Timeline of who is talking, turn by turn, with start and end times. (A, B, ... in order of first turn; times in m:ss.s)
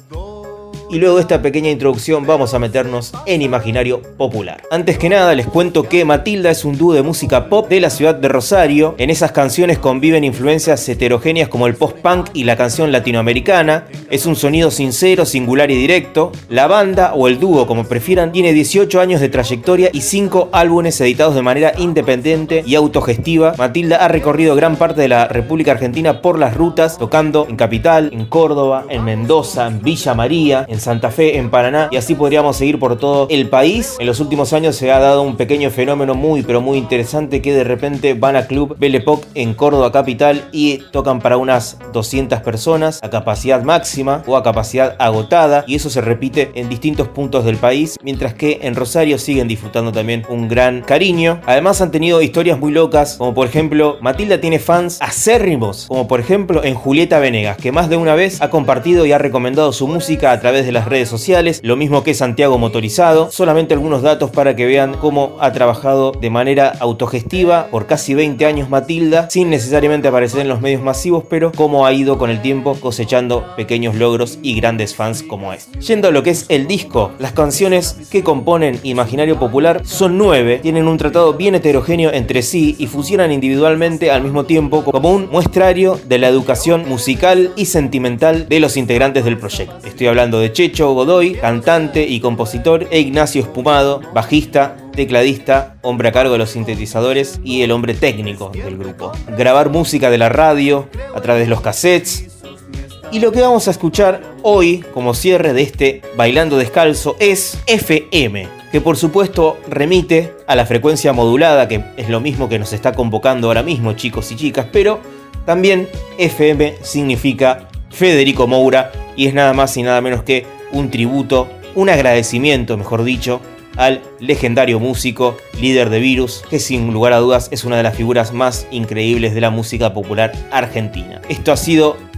0:00.9-1:42.3 A
1:43.1-2:12.0 A